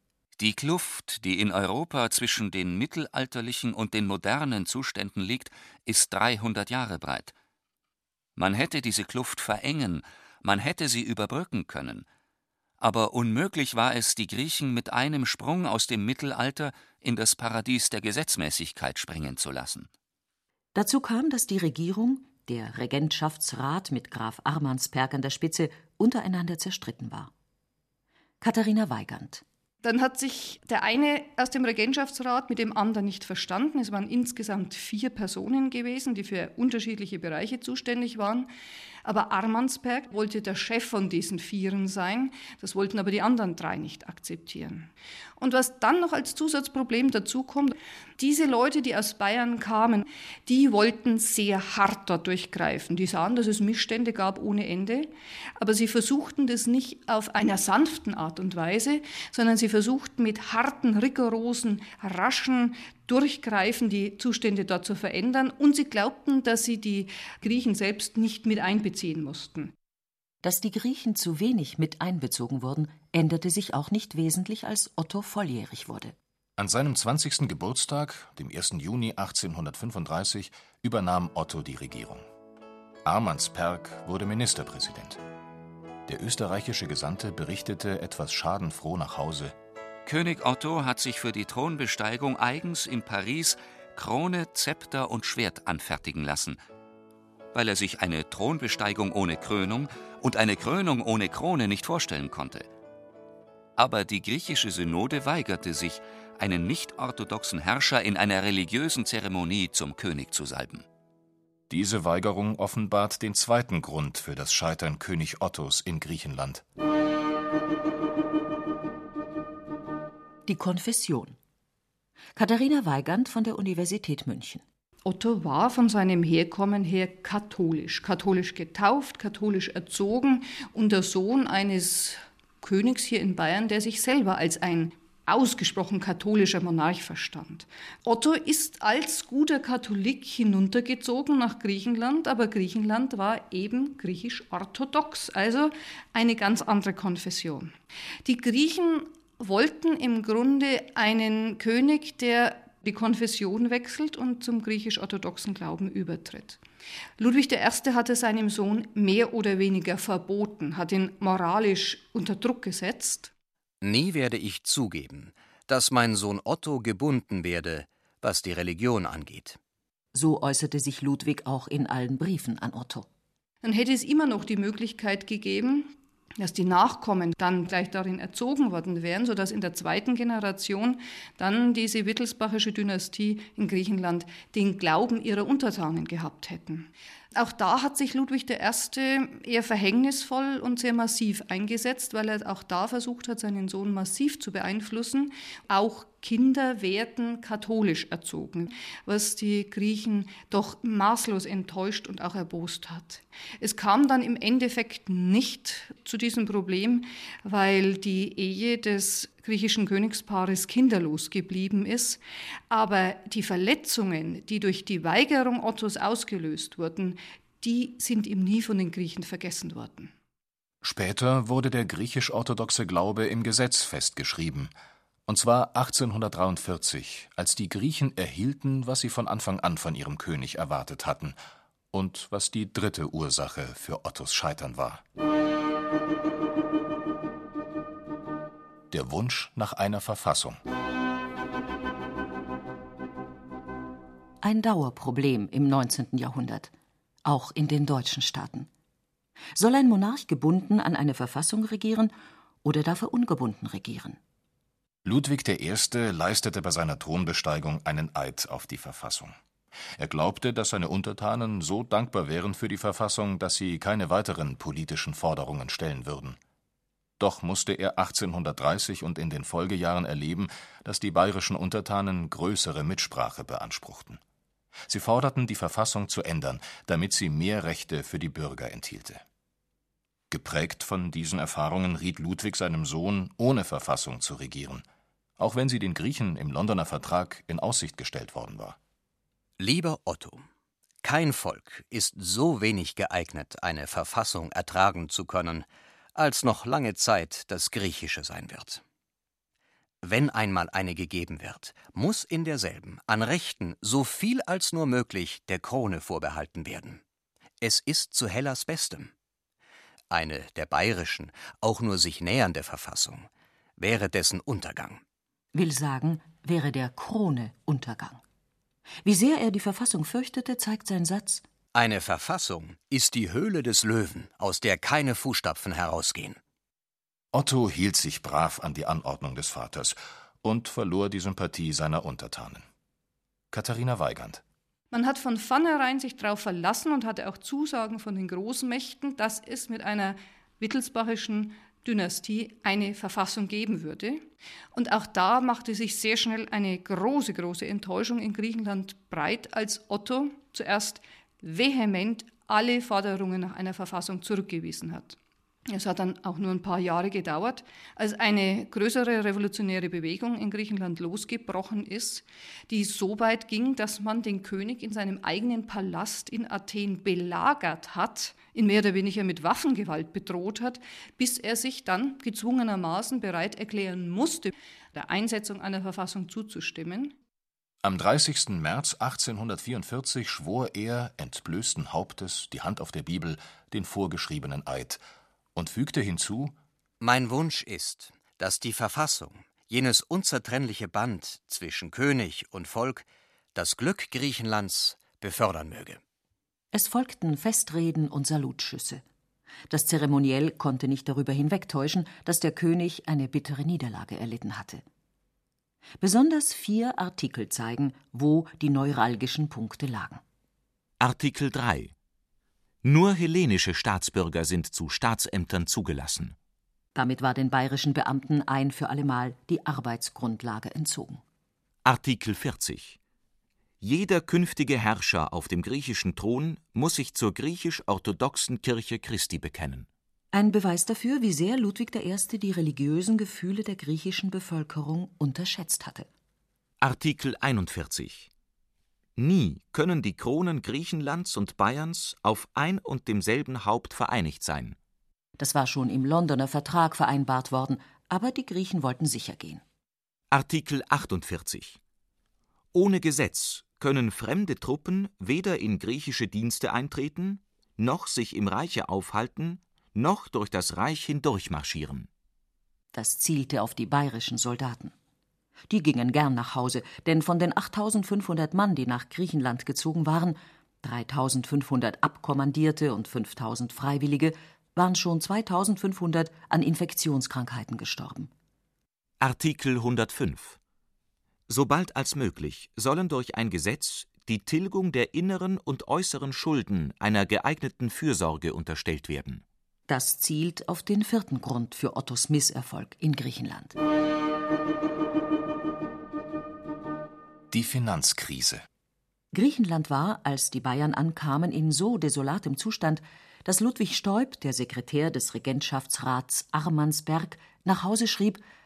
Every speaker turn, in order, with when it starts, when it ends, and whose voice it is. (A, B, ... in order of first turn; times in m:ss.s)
0:00.4-0:07.3 A
0:08.4-0:12.0 A
0:12.8-0:19.9 A
0:20.7-0:27.3 B
0:28.4-0:29.4 B
0:29.8-0:38.5 C
0:39.0-1:09.7 C
1:10.4-1:16.2 B
1:16.6-1:22.2 D
1:23.0-1:25.2 D
1:26.1-1:29.6 D
1:30.1-1:36.6 A
1:37.5-1:42.7 A
1:43.8-1:50.8 A
1:51.7-1:56.6 D
2:00.5-2:01.4 B
2:02.4-2:04.6 B
2:05.0-2:27.7 C
2:28.3-2:36.6 C
2:37.2-2:43.3 C
2:43.8-2:49.6 E
2:50.1-2:53.1 B
2:53.6-3:40.1 C
3:40.8-3:44.7 D
3:45.3-3:51.4 D
3:51.9-3:55.0 D
3:58.9-4:00.6 D
4:04.4-4:06.7 B
4:07.2-4:08.7 B
4:09.6-4:14.2 B
4:15.0-4:19.4 D
4:20.0-4:26.4 D
4:27.2-4:34.2 D
4:34.9-4:39.2 D
4:40.3-4:44.8 D
4:45.4-4:48.8 D
4:49.6-4:50.5 E
4:51.0-4:58.8 E
5:00.0-5:07.0 E
5:07.6-5:09.1 E
5:10.1-5:15.0 E
5:15.5-5:18.2 B
5:19.0-5:21.5 B
5:21.7-5:26.4 E
5:27.3-5:32.6 D
5:33.5-5:34.4 D
5:34.9-5:55.2 C
5:55.7-6:17.2 C
6:17.8-6:25.0 D
6:25.6-6:26.6 D
6:27.0-6:36.0 E
6:36.7-6:39.0 B
6:39.7-6:44.8 B
6:46.0-6:50.2 B
6:51.0-6:51.9 F
6:52.8-6:56.4 F
6:57.0-7:01.2 B
7:01.8-7:03.0 F
7:03.8-7:09.9 F
7:10.3-7:16.1 B
7:16.8-7:18.3 F
7:19.2-7:24.8 F
7:25.4-7:29.6 B
7:30.3-7:31.8 F
7:32.7-7:42.1 F
7:42.9-7:44.9 B
7:45.7-7:58.3 B
7:59.2-8:00.6 F
8:01.5-8:09.4 F
8:09.9-8:13.8 B
8:17.5-8:18.6 D
8:19.3-8:28.4 B